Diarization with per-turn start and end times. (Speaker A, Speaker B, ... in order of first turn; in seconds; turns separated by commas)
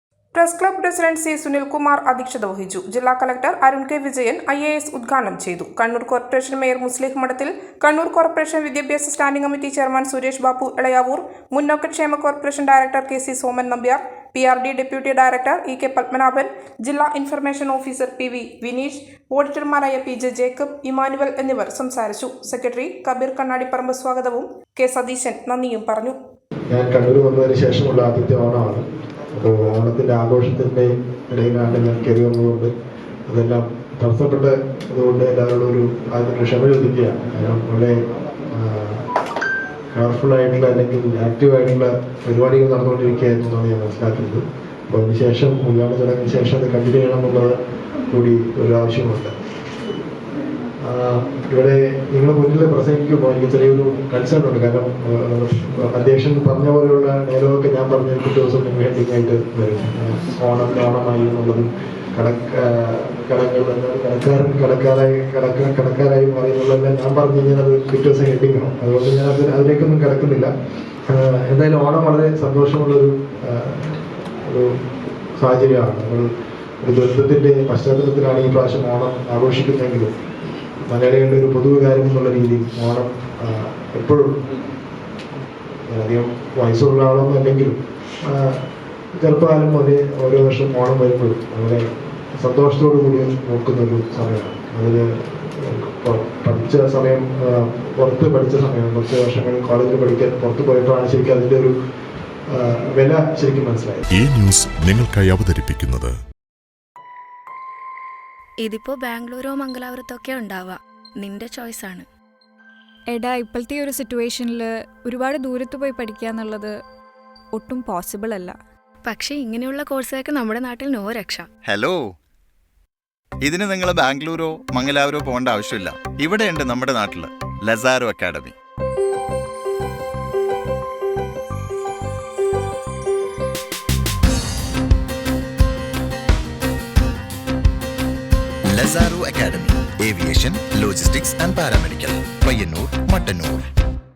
Speaker A: 0.3-26.1, Speaker B: 26.7-28.8, Speaker B: 29.3-32.7, Speaker B: 33.3-38.0, Speaker B: 38.5-39.0, Speaker B: 39.9-47.5, Speaker B: 48.1-49.3, Speaker B: 50.8-70.5, Speaker B: 71.1-74.7, Speaker B: 75.4-76.3, Speaker B: 76.8-80.1, Speaker B: 80.9-84.3, Speaker B: 85.9-88.6, Speaker B: 89.2-91.8, Speaker B: 92.4-101.7, Speaker B: 102.5-104.0, Speaker C: 104.1-106.1, Speaker D: 108.6-112.1, Speaker E: 113.1-116.7, Speaker E: 117.5-118.5, Speaker D: 119.0-121.5, Speaker F: 121.6-122.0, Speaker F: 123.4-128.5, Speaker F: 138.7-143.7